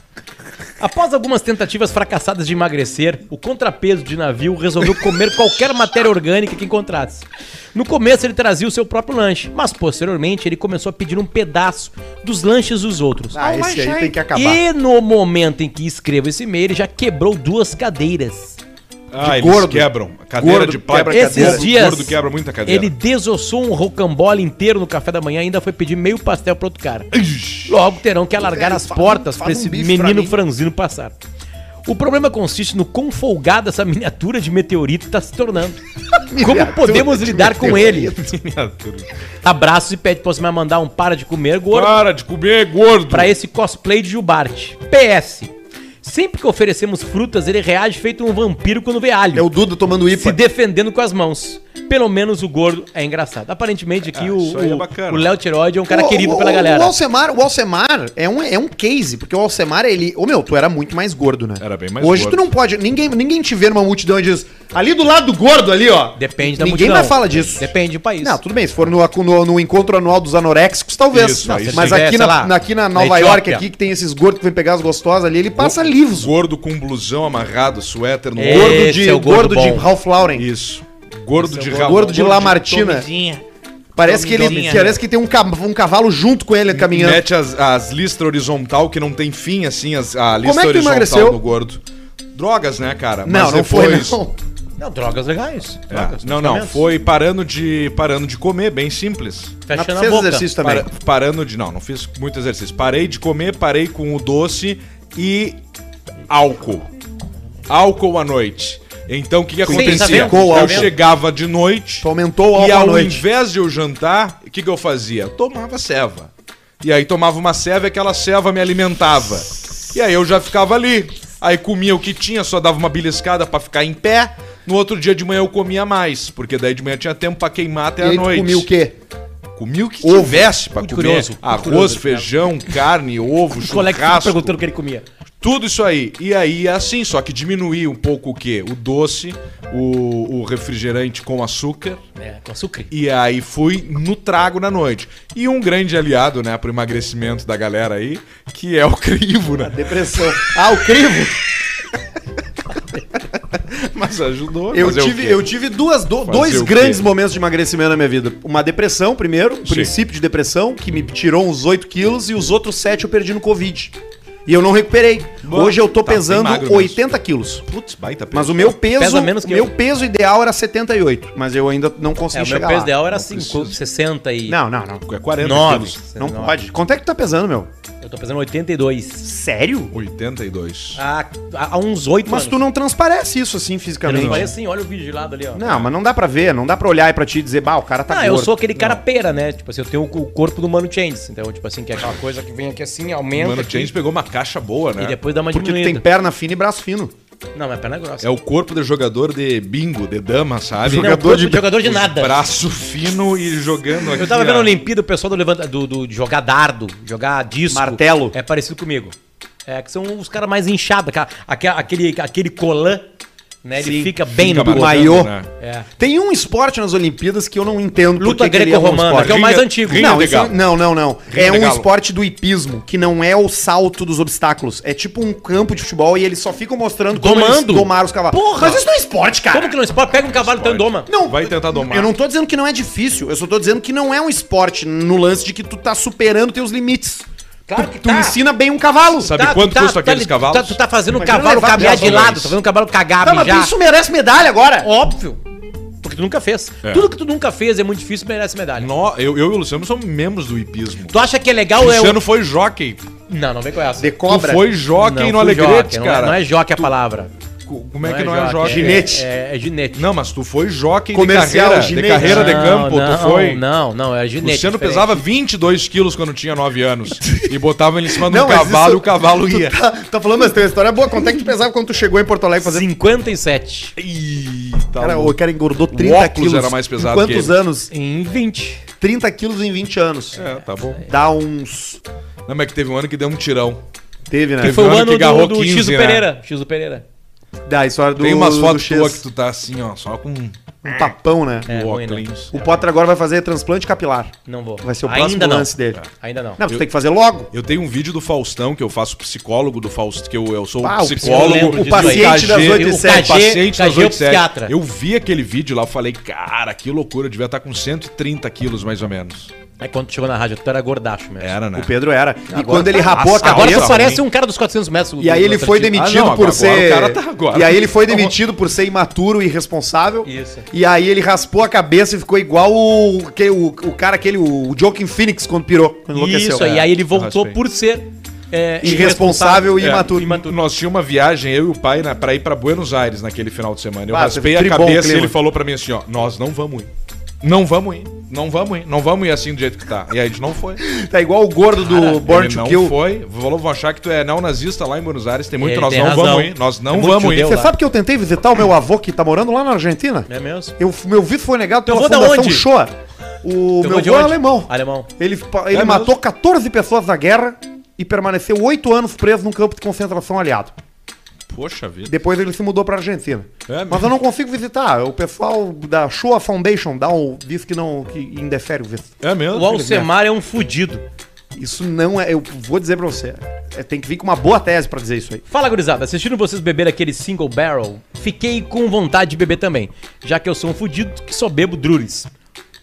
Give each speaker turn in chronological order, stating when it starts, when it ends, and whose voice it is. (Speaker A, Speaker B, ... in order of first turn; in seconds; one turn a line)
Speaker A: 0.8-13.7
Speaker B: 13.3-14.6
Speaker C: 13.4-14.1
Speaker A: 14.2-18.6
Speaker C: 19.1-22.9
Speaker B: 19.2-21.7
Speaker A: 21.1-27.1
Speaker C: 27.1-27.7
Speaker A: 27.6-31.1
Speaker B: 28.4-30.4
Speaker A: 31.9-35.8
Speaker B: 36.3-38.3
Speaker A: 36.4-38.1
Speaker C: 37.6-39.1
Speaker A: 39.4-42.0
Speaker C: 41.7-43.3
Speaker A: 43.1-49.5
Speaker B: 49.3-50.4
Speaker A: 50.1-56.9
Speaker C: 54.1-55.3
Speaker B: 55.9-76.3
Speaker C: 61.6-62.4
Speaker A: 66.2-68.4
Speaker C: 71.1-72.0
Speaker A: 71.5-73.6
Speaker C: 75.6-78.8
Speaker A: 78.4-79.9
Speaker B: 78.4-80.5
Speaker C: 80.3-83.4
Speaker A: 81.4-82.4
Speaker B: 81.6-83.1
Speaker B: 84.0-87.2
Speaker C: 84.0-85.0
Speaker C: 86.7-91.8
Speaker B: 90.4-91.4
Speaker C: 92.3-94.2
Speaker B: 93.2-94.3
Speaker A: 94.8-96.8
Speaker C: 95.9-99.6
Speaker A: 99.7-100.5
Speaker B: 99.7-100.9
Speaker C: 100.6-105.6
Speaker C: 106.3-106.9
Speaker C: 107.7-128.7
Speaker B: 109.6-110.9
Speaker A: 109.7-110.9
Speaker B: 112.0-113.2
Speaker B: 128.0-128.9
Speaker C: 129.6-134.6
Speaker B: 130.0-130.5
Speaker A: 130.7-132.3
Speaker A: 133.6-135.1
Speaker C: 135.4-142.0
Speaker A: 142.2-142.9
Speaker C: 142.9-149.8
Speaker B: 149.6-151.4
Speaker C: 153.5-155.4
Speaker B: 154.7-163.9
Speaker C: 156.2-157.0
Speaker C: 159.7-159.9
Speaker B: 164.4-167.6
Speaker C: 165.4-167.0
Speaker C: 167.6-168.7
Speaker B: 168.3-172.9
Speaker A: 168.8-169.7
Speaker A: 172.3-174.6
Speaker C: 173.1-173.8
Speaker B: 174.5-175.0
Speaker C: 175.1-176.0
Speaker A: 175.4-176.6
Speaker B: 176.2-177.7
Speaker A: 178.0-179.3
Speaker B: 179.2-179.9
Speaker C: 179.9-181.0
Speaker A: 180.9-182.6
Speaker B: 182.2-184.5
Speaker A: 184.0-185.8
Speaker C: 184.1-184.5
Speaker B: 185.5-188.6
Speaker A: 188.1-193.9
Speaker C: 193.3-195.2
Speaker A: 195.0-196.0
Speaker B: 195.5-197.1
Speaker A: 197.5-198.3
Speaker C: 198.2-204.8
Speaker B: 200.8-201.7
Speaker A: 200.9-202.4
Speaker A: 204.1-209.1
Speaker B: 207.7-208.3
Speaker A: 209.7-213.1
Speaker A: 213.6-215.9
Speaker B: 213.8-215.3
Speaker C: 214.3-215.5
Speaker B: 216.0-229.8
Speaker A: 218.2-220.1
Speaker C: 219.2-220.6
Speaker C: 221.3-221.9
Speaker A: 227.1-228.8
Speaker A: 229.5-231.1
Speaker C: 230.1-232.1
Speaker B: 231.1-239.3
Speaker A: 237.7-238.4
Speaker C: 239.2-240.8
Speaker A: 239.3-243.7
Speaker B: 241.1-242.3
Speaker C: 241.7-242.6
Speaker B: 243.2-244.9
Speaker A: 244.8-245.4
Speaker A: 246.0-248.9
Speaker C: 248.8-251.2
Speaker A: 251.1-252.2
Speaker C: 251.8-253.1
Speaker A: 253.3-254.2
Speaker B: 254.0-254.6
Speaker C: 254.3-256.9
Speaker A: 255.0-257.3
Speaker C: 257.7-259.1
Speaker A: 258.0-260.1
Speaker B: 258.6-259.2
Speaker C: 259.9-263.6
Speaker B: 261.1-262.7
Speaker A: 262.2-265.2
Speaker C: 264.4-269.8
Speaker B: 268.2-272.9
Speaker A: 272.6-273.9
Speaker C: 274.0-275.4
Speaker B: 275.0-277.9
Speaker C: 275.9-277.6
Speaker A: 277.9-278.8
Speaker B: 279.0-280.5
Speaker C: 280.3-281.0
Speaker B: 281.0-282.0
Speaker C: 282.5-283.8
Speaker B: 284.3-284.8
Speaker C: 284.6-286.2
Speaker A: 284.6-287.0
Speaker B: 287.6-289.2
Speaker C: 288.2-291.0
Speaker B: 290.8-291.7
Speaker C: 291.7-292.5
Speaker A: 291.7-292.8
Speaker B: 292.5-296.0
Speaker A: 294.4-296.6
Speaker B: 296.6-297.5
Speaker C: 297.5-309.5
Speaker B: 300.8-303.4
Speaker A: 301.2-304.7
Speaker A: 309.8-311.5
Speaker C: 311.4-311.9
Speaker B: 311.7-314.0
Speaker A: 312.5-316.0
Speaker C: 313.1-314.2
Speaker B: 315.2-326.9
Speaker C: 315.9-318.4
Speaker A: 320.2-320.6
Speaker A: 326.1-330.5
Speaker C: 327.1-327.6
Speaker B: 328.8-330.4
Speaker C: 329.8-336.9
Speaker B: 334.1-335.3
Speaker C: 337.4-340.8
Speaker B: 340.8-342.9
Speaker C: 341.9-347.6
Speaker A: 345.6-347.7
Speaker B: 347.4-360.7
Speaker A: 350.3-350.7
Speaker A: 351.9-352.7
Speaker A: 353.8-355.1
Speaker C: 355.7-356.1
Speaker C: 361.5-362.1
Speaker B: 362.1-369.1
Speaker C: 363.7-364.1
Speaker C: 369.2-370.0
Speaker A: 369.5-371.0
Speaker B: 371.5-375.4
Speaker A: 375.5-382.3